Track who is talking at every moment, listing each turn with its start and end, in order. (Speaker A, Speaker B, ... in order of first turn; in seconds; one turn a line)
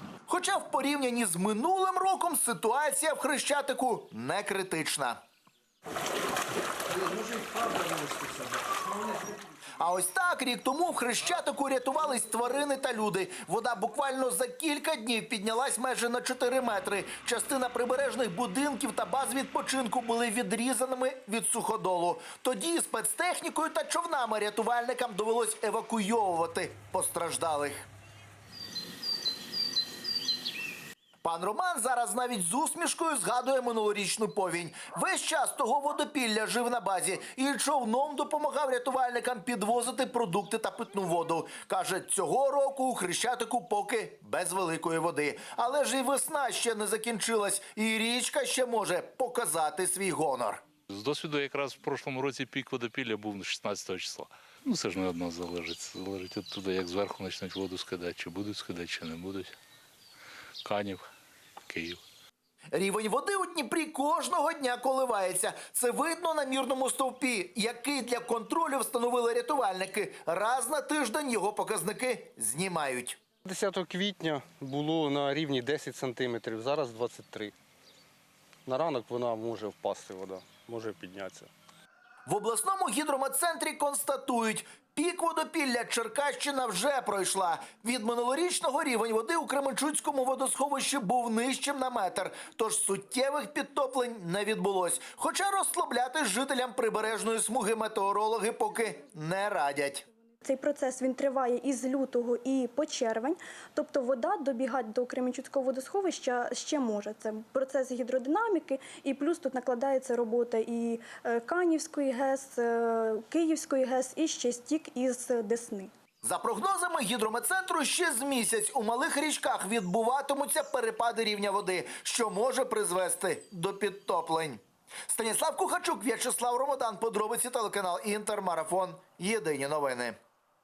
Speaker A: 0.3-5.2
Speaker A: 9.8-27.9
Speaker A: 31.2-50.6
Speaker B: 50.9-59.5
Speaker B: 60.6-61.1
Speaker B: 61.7-62.0
Speaker A: 62.7-73.2
Speaker C: 73.5-77.5
Speaker C: 78.7-81.5
Speaker A: 82.3-100.0
Speaker D: 100.4-115.9
Speaker A: 116.2-130.2